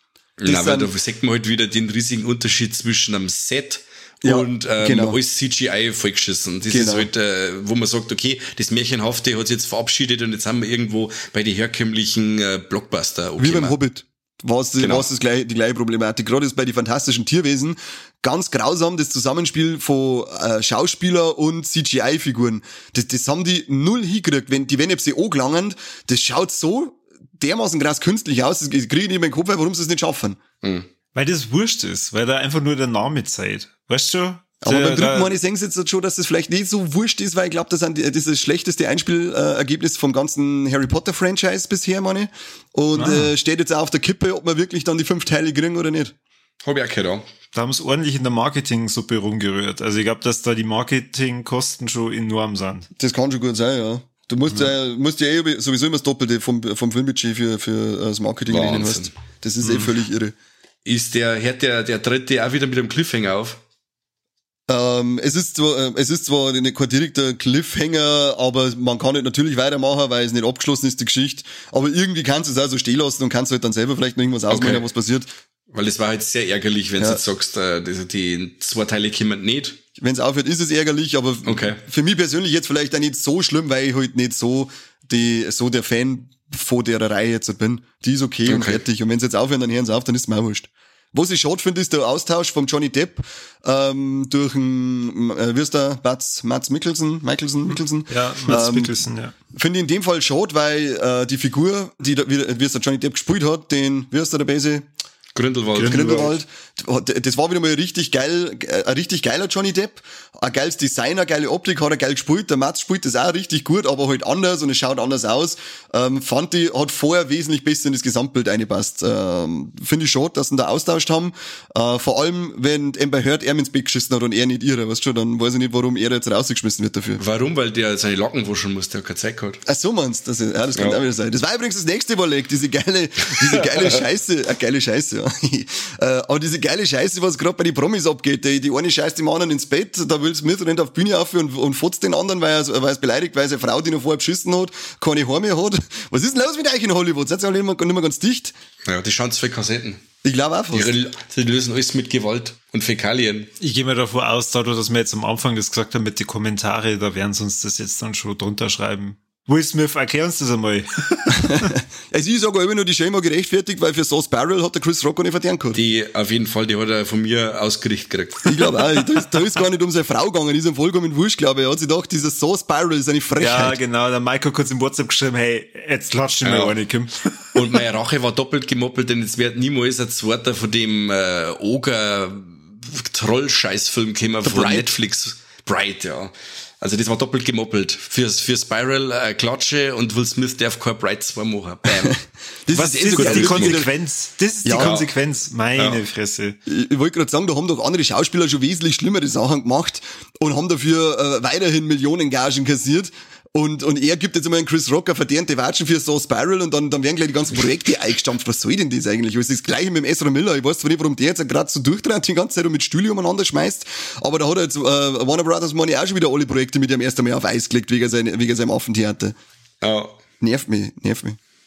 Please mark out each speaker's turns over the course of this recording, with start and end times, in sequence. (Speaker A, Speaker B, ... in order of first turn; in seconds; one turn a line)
Speaker A: 0.4-13.7
Speaker B: 0.5-0.9
Speaker B: 4.2-5.2
Speaker B: 6.7-7.1
Speaker B: 13.4-30.4
Speaker A: 14.8-15.1
Speaker C: 31.1-35.4
Speaker B: 34.6-46.1
Speaker C: 42.9-43.3
Speaker A: 46.6-47.2
Speaker C: 47.5-52.9
Speaker B: 53.0-60.3
Speaker A: 58.5-59.1
Speaker A: 60.8-63.6
Speaker B: 64.7-75.3
Speaker A: 74.5-74.8
Speaker A: 75.7-79.8
Speaker B: 80.0-98.9
Speaker A: 81.4-81.8
Speaker A: 88.5-88.8
Speaker C: 98.1-99.3
Speaker B: 99.5-104.9
Speaker A: 105.3-106.3
Speaker C: 105.7-106.3
Speaker B: 105.8-127.2
Speaker A: 127.2-129.6
Speaker B: 129.7-148.5
Speaker A: 148.8-150.0
Speaker B: 150.2-150.9
Speaker A: 150.7-153.5
Speaker C: 153.6-161.7
Speaker B: 161.3-165.8
Speaker A: 165.7-168.5
Speaker B: 168.4-173.8
Speaker C: 173.4-177.7
Speaker A: 176.4-176.7
Speaker A: 177.5-192.1
Speaker B: 184.4-184.9
Speaker B: 191.9-193.9
Speaker C: 192.7-196.6
Speaker A: 193.1-193.8
Speaker B: 194.7-194.9
Speaker A: 194.8-195.1
Speaker B: 196.7-219.3
Speaker A: 219.8-220.1
Speaker B: 220.4-221.4